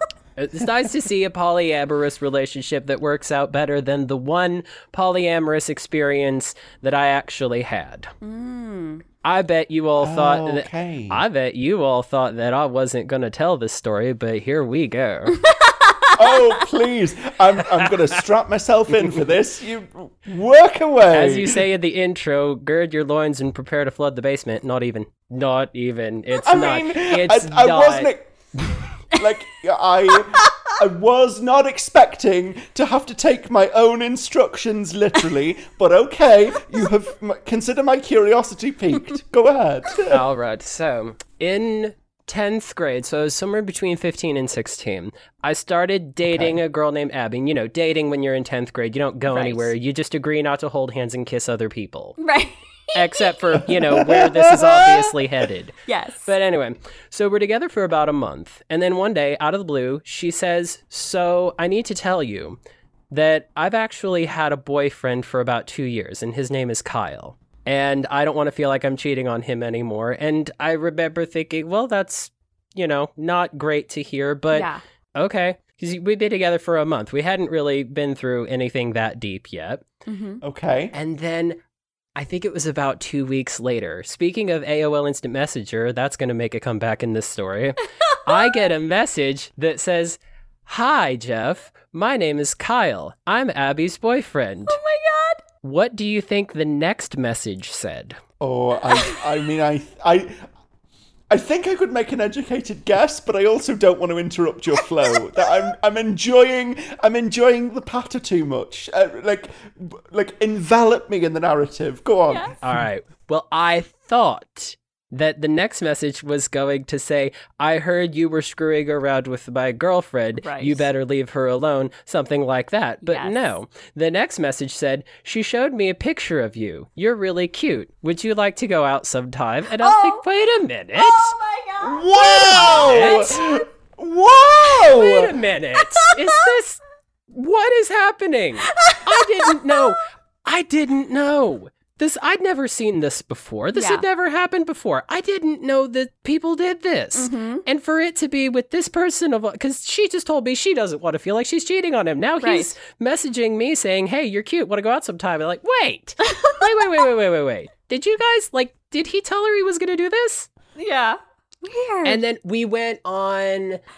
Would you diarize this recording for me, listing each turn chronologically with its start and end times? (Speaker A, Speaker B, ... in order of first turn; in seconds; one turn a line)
Speaker A: 0.4-8.1
Speaker B: 8.2-9.1
Speaker A: 9.2-15.4
Speaker C: 10.0-11.2
Speaker B: 15.3-16.6
Speaker C: 16.1-21.5
Speaker A: 21.1-28.1
Speaker C: 26.4-28.3
Speaker C: 29.1-40.2
Speaker A: 40.1-52.2
Speaker C: 46.3-46.6
Speaker B: 49.3-49.7
Speaker B: 52.2-53.4
Speaker A: 52.9-62.6
Speaker C: 53.9-55.1
Speaker B: 55.9-56.3
Speaker A: 63.1-79.8
Speaker B: 74.5-74.8
Speaker B: 80.1-80.4
Speaker C: 80.4-81.0
Speaker A: 80.9-81.6
Speaker A: 82.2-94.8
Speaker B: 88.0-88.6
Speaker B: 94.7-95.4
Speaker A: 95.6-98.2
Speaker C: 98.4-100.5
Speaker B: 98.9-99.2
Speaker C: 101.3-112.8
Speaker B: 105.1-105.7
Speaker B: 112.3-112.5
Speaker A: 112.6-131.4
Speaker B: 120.4-120.9
Speaker B: 123.0-123.6
Speaker B: 129.8-130.2
Speaker B: 130.9-133.6
Speaker C: 131.8-135.3
Speaker A: 132.3-133.4
Speaker A: 134.8-136.8
Speaker A: 137.3-160.5
Speaker B: 138.7-139.9
Speaker B: 143.7-144.1
Speaker B: 147.1-147.6
Speaker B: 152.4-152.7
Speaker B: 156.2-156.7
Speaker B: 160.8-162.2
Speaker A: 162.1-163.8